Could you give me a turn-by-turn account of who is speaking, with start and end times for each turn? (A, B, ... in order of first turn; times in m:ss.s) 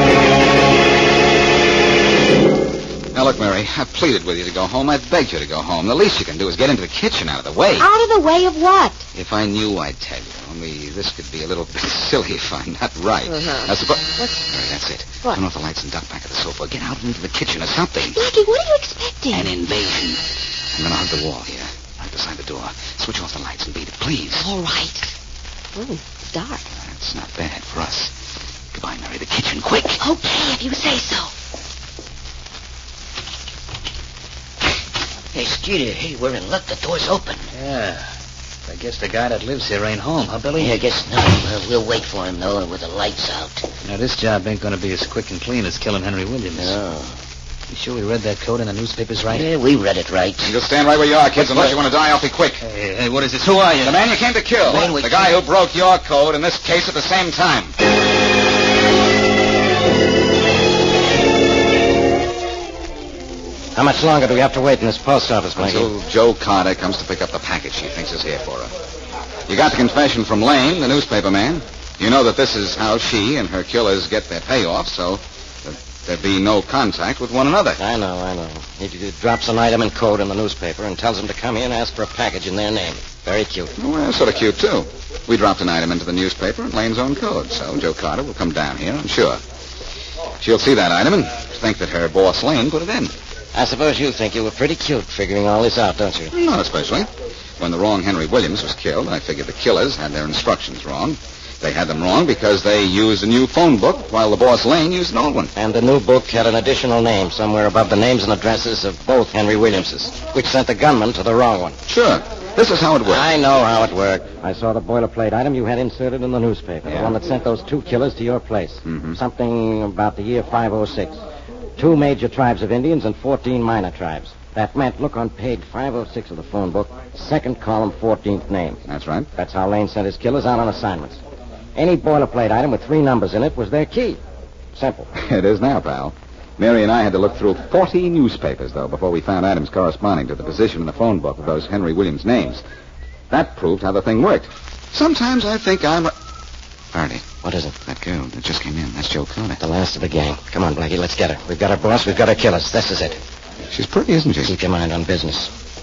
0:03.1-0:07.9 A
0:07.8-0:09.1 B
0:09.1-0:18.2 A
0:13.2-0:14.4 B
0:18.1-0:19.5 B
0:19.3-0:24.5 A
0:24.3-0:25.1 B
0:25.7-0:26.7 B
0:26.8-0:28.1 A
0:28.7-0:30.0 A
0:30.0-0:31.3 B
0:35.3-0:37.5 C
0:37.5-0:38.1 D
0:38.7-0:40.7 D
0:40.6-0:43.7 C
0:43.8-0:46.7 D
0:46.5-0:47.2 C
0:47.7-0:49.5 D
0:49.3-0:50.5 C
0:50.4-0:52.6 A
0:52.6-0:54.0 D
0:53.8-0:57.7 A
0:54.6-0:55.3 C
1:03.7-1:05.9 E
1:05.5-1:08.7 A
1:09.5-1:17.8 A
1:17.8-1:23.7 E
1:23.8-1:29.4 A
1:30.4-1:33.1 A
1:33.5-1:36.3 E
1:36.3-1:45.5 A
1:45.6-1:51.8 E
1:51.8-1:53.3 A
1:53.0-2:01.2 E
1:56.8-1:57.2 A
1:58.8-1:59.2 A
2:01.8-2:08.8 E
2:08.9-2:09.3 A
2:09.3-2:11.2 E
2:11.7-2:14.2 E
2:14.7-2:15.1 E
2:15.1-2:22.6 A
2:23.3-2:26.1 A
2:26.9-2:27.3 A
2:27.4-2:27.8 E
2:27.8-2:29.6 A
2:29.6-2:33.2 E
2:33.7-2:34.5 A
2:34.4-2:35.5 E